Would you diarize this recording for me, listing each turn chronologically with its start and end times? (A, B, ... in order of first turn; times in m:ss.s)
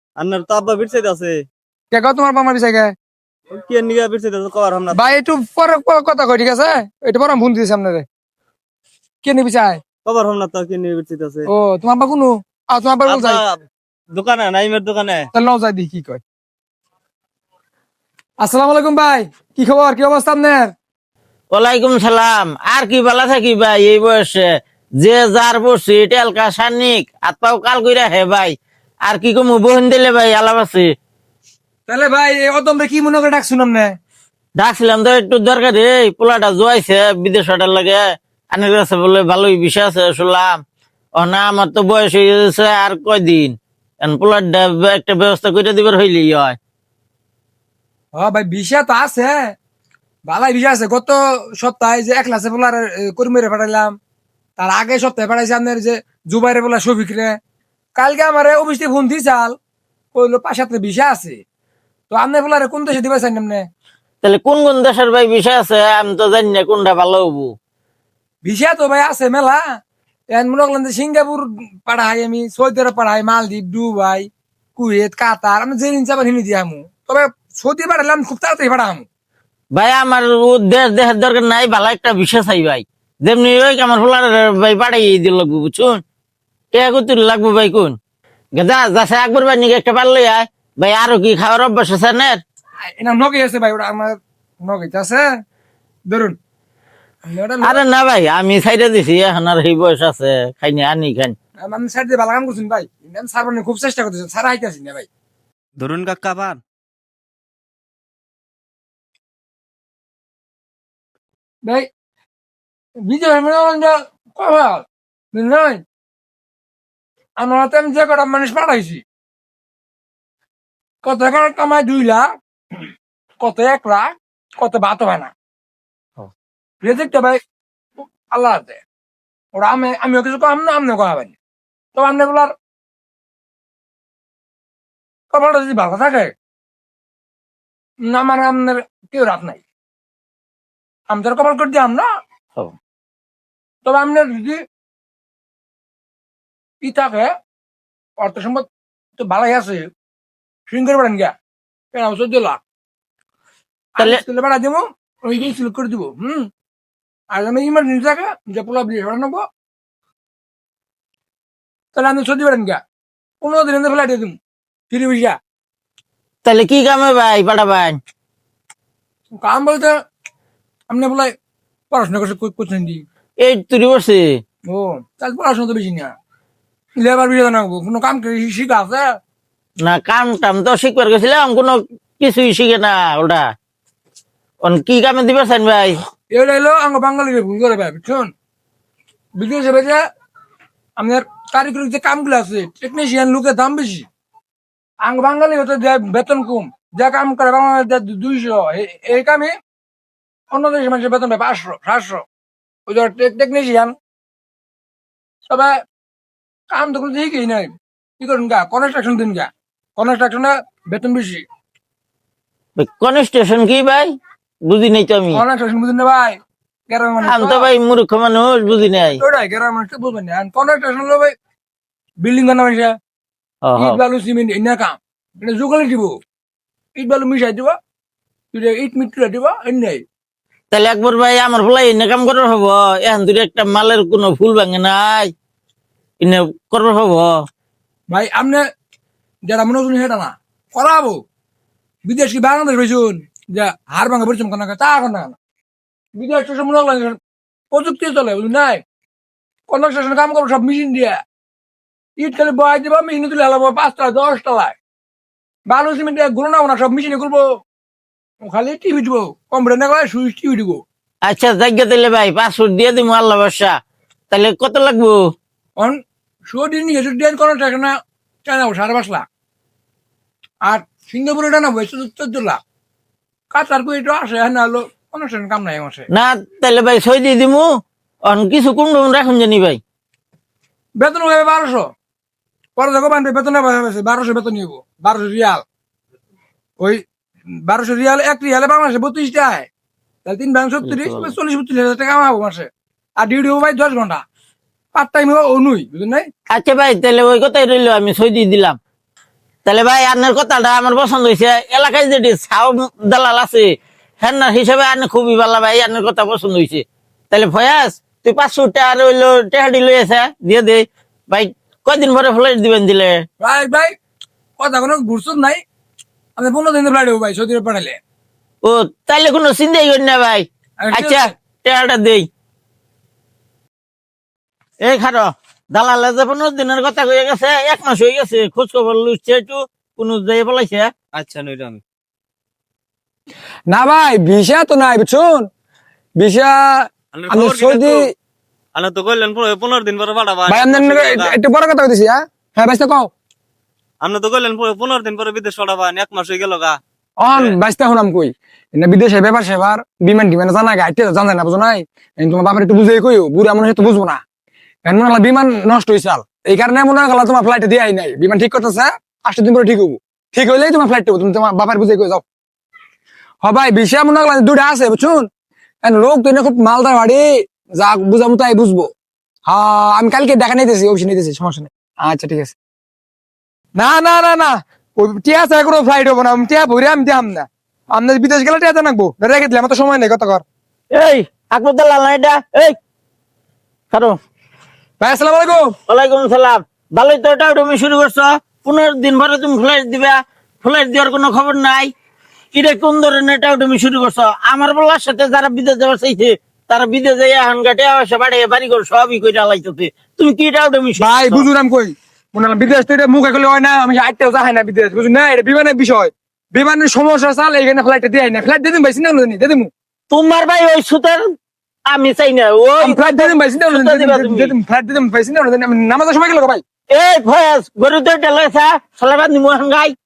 0:00.2-0:01.4 A
0:01.9-0:02.9 B
0:03.5-0:05.0 A
0:04.9-0:08.0 B
0:09.2-0:09.8 B
0:10.0-0:11.5 A
0:11.5-0:13.4 B
0:13.0-0:15.3 A
0:15.3-0:16.2 B
0:18.4-0:20.7 B
0:21.5-0:24.5 C
0:25.0-0:28.5 C
0:29.1-0:30.9 C
0:31.9-0:33.9 B
0:34.6-0:38.0 C
0:38.5-0:40.6 C
0:41.2-0:46.6 C
0:48.2-0:49.4 B
0:50.3-0:53.9 B
0:54.6-0:57.4 B
0:58.0-0:59.5 B
1:00.1-1:01.4 B
1:02.1-1:03.6 B
1:04.2-1:07.5 C
1:08.4-1:09.6 B
1:10.3-1:19.0 B
1:19.7-1:26.0 C
1:26.7-1:27.9 C
1:28.6-1:32.4 C
1:33.0-1:35.2 B
1:36.1-1:36.4 B
1:37.3-1:37.8 B
1:37.6-1:41.3 C
1:41.6-1:45.1 B
1:45.8-1:46.6 A
1:53.1-1:55.8 B
1:57.4-1:59.0 B
2:01.0-2:02.2 B
2:03.4-2:05.3 B
2:06.8-2:07.4 B
2:08.3-2:08.8 B
2:09.6-2:11.3 B
2:11.9-2:12.5 B
2:15.3-2:16.3 B
2:18.0-2:19.6 B
2:21.1-2:22.1 B
2:23.8-2:24.6 B
2:26.8-2:27.3 B
2:28.2-2:28.7 B
2:29.2-2:29.9 B
2:30.7-2:31.3 B
2:31.9-2:32.6 B
2:34.0-2:36.5 B
2:37.3-2:39.4 B
2:41.9-2:42.8 B
2:43.4-2:44.4 B
2:44.9-2:45.4 B
2:46.4-2:48.0 C
2:49.4-2:49.9 B
2:50.9-2:51.3 B
2:51.9-2:53.0 B
2:53.4-2:54.4 C
2:54.7-2:56.1 B
2:57.0-2:59.0 B
2:59.8-3:03.4 C
3:04.6-3:06.0 C
3:06.3-3:08.3 B
3:09.4-3:10.0 B
3:11.0-3:14.1 B
3:15.0-3:19.5 B
3:20.5-3:22.2 B
3:22.9-3:23.9 B
3:25.5-3:25.7 B
3:26.7-3:31.4 B
3:32.8-3:34.1 C
3:34.7-3:35.4 C
3:35.3-3:36.4 B
3:36.9-3:37.7 B
3:37.2-3:39.2 C
3:39.1-3:41.3 B
3:42.2-3:42.9 B
3:43.6-3:44.0 C
3:43.8-3:46.1 B
3:47.0-3:47.7 B
3:48.5-3:50.0 B
3:50.7-3:55.3 C
3:56.2-3:57.3 C
3:58.1-3:58.6 B
3:59.5-4:01.2 B
4:02.0-4:05.4 B
4:06.2-4:07.2 B
4:07.7-4:08.8 B
4:09.7-4:11.2 B
4:12.2-4:14.7 B
4:15.7-4:17.4 B
4:18.4-4:20.8 B
4:21.2-4:23.8 C
4:24.3-4:25.2 C
4:26.5-4:27.9 B
4:28.4-4:29.2 B
4:30.7-4:32.6 B
4:33.5-4:36.1 B
4:36.1-4:37.6 C
4:38.3-4:39.8 C
4:41.0-4:41.9 B
4:42.8-4:45.6 B
4:47.7-4:49.7 B
4:50.2-4:52.7 B
4:50.8-4:51.3 C
4:53.2-4:54.2 B
4:54.9-4:56.3 B
4:56.5-4:58.8 C
4:59.6-5:03.7 C
5:04.2-5:13.2 C
5:13.4-5:13.9 B
5:14.6-5:15.6 B
5:16.4-5:18.0 B
5:18.6-5:22.3 C
5:20.8-5:21.3 B
5:24.8-5:30.9 C
5:31.1-5:31.8 A
5:33.7-5:35.5 B
5:36.2-5:38.0 B
5:37.1-5:38.1 A
5:38.7-5:41.3 A
5:40.5-5:43.1 B
5:44.0-5:46.8 A
5:47.2-5:54.2 B
5:54.8-6:02.2 B
6:03.4-6:05.3 B
6:05.8-6:07.3 B
6:07.8-6:08.9 B
6:09.5-6:12.6 B
6:13.8-6:20.4 B
6:20.9-6:22.7 C
6:23.9-6:24.2 C
6:25.0-6:25.7 B
6:25.9-6:31.9 C
6:32.5-6:41.5 C
6:41.0-6:49.7 B
6:50.1-6:51.2 C
6:51.9-6:54.5 C
6:52.8-6:56.6 B
6:56.9-6:59.9 C